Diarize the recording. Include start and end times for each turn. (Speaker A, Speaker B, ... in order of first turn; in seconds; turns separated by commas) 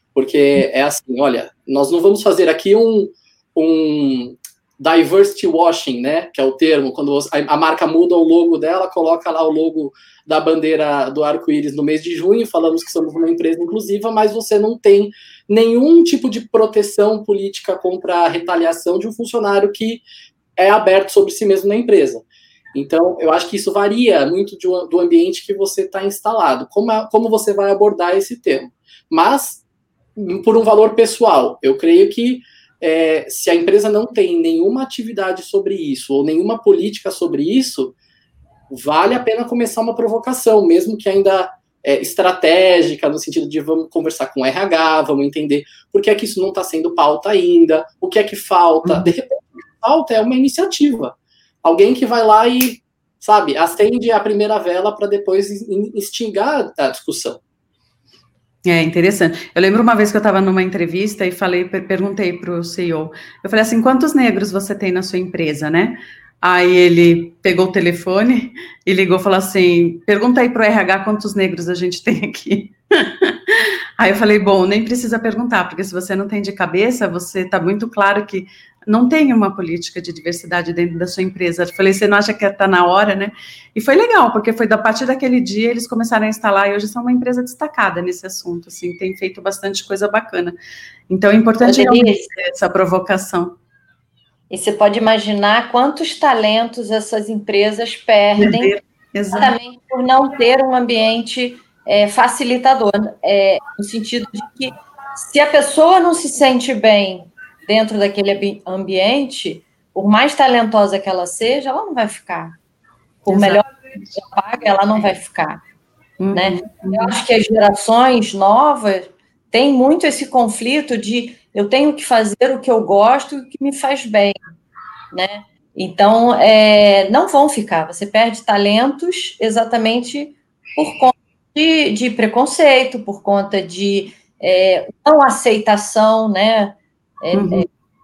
Speaker A: 0.1-20.0, Speaker A: 20.6-29.6, Speaker A: 30.1-38.0, Speaker A: 38.7-57.4, Speaker B: 48.8-49.1, Speaker B: 58.6-90.5, Speaker B: 91.1-93.5, Speaker C: 91.6-92.3, Speaker C: 94.5-98.7, Speaker B: 98.4-99.5, Speaker C: 99.3-112.6, Speaker C: 113.2-115.6, Speaker B: 113.3-114.1, Speaker B: 116.2-117.1, Speaker C: 116.3-124.3, Speaker C: 125.1-137.7, Speaker B: 137.3-137.7